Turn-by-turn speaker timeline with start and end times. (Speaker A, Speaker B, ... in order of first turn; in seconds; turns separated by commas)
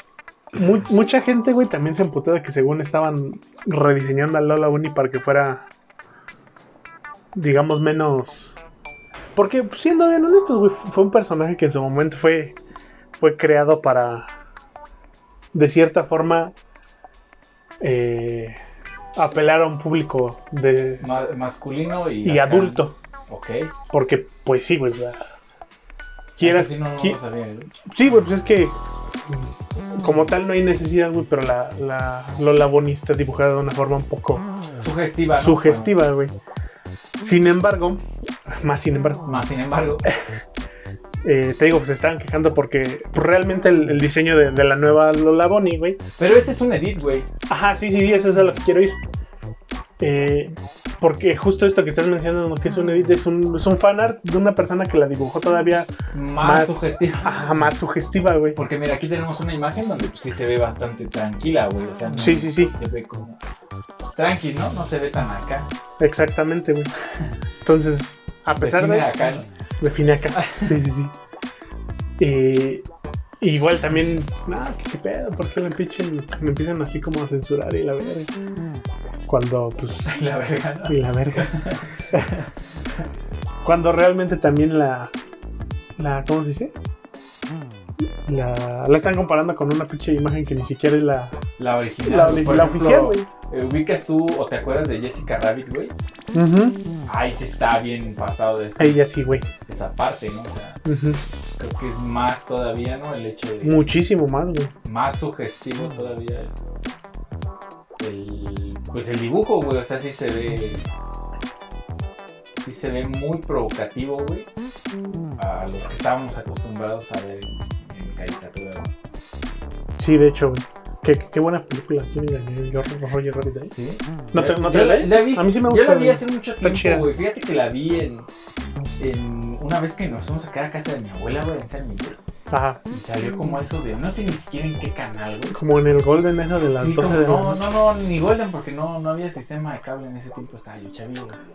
Speaker A: 0.5-5.7, Speaker A: 7.3-8.6, Speaker A: 9.3-12.6, Speaker A: 13.2-14.3, Speaker A: 15.5-16.5, Speaker A: 17.8-18.6, Speaker A: 19.1-21.1, Speaker B: 21.0-23.7, Speaker A: 22.2-23.0, Speaker A: 23.9-25.3, Speaker A: 26.4-27.2, Speaker B: 26.4-27.7, Speaker A: 27.8-34.4, Speaker B: 34.8-35.9, Speaker A: 35.4-36.3, Speaker A: 37.2-39.2, Speaker B: 39.3-40.1, Speaker A: 41.2-46.0, Speaker B: 46.2-47.3, Speaker A: 47.5-49.0, Speaker A: 50.0-58.6, Speaker B: 56.1-57.5, Speaker B: 58.5-63.4, Speaker A: 62.2-62.7, Speaker B: 64.0-65.7, Speaker A: 66.0-66.9, Speaker A: 67.6-69.1, Speaker B: 68.5-69.5, Speaker A: 69.8-71.1, Speaker B: 70.3-70.7, Speaker A: 72.2-72.8, Speaker A: 73.4-78.3, Speaker A: 79.3-80.1, Speaker B: 80.0-82.5, Speaker A: 80.9-81.5, Speaker A: 83.6-85.1, Speaker A: 86.0-86.7, Speaker A: 88.2-91.4, Speaker B: 91.6-95.9, Speaker A: 92.0-93.3, Speaker A: 96.3-96.8, Speaker B: 97.1-99.0, Speaker A: 98.8-99.5, Speaker B: 99.7-100.8, Speaker A: 100.8-101.2, Speaker B: 101.6-103.8, Speaker A: 103.6-104.7, Speaker B: 104.8-106.5, Speaker B: 108.0-110.9, Speaker B: 112.6-114.5, Speaker B: 115.4-118.9, Speaker A: 120.0-123.7, Speaker B: 123.7-128.3, Speaker A: 124.3-127.1, Speaker B: 129.0-132.2, Speaker A: 132.5-132.8, Speaker B: 132.9-135.6, Speaker A: 135.5-137.7, Speaker B: 136.8-141.4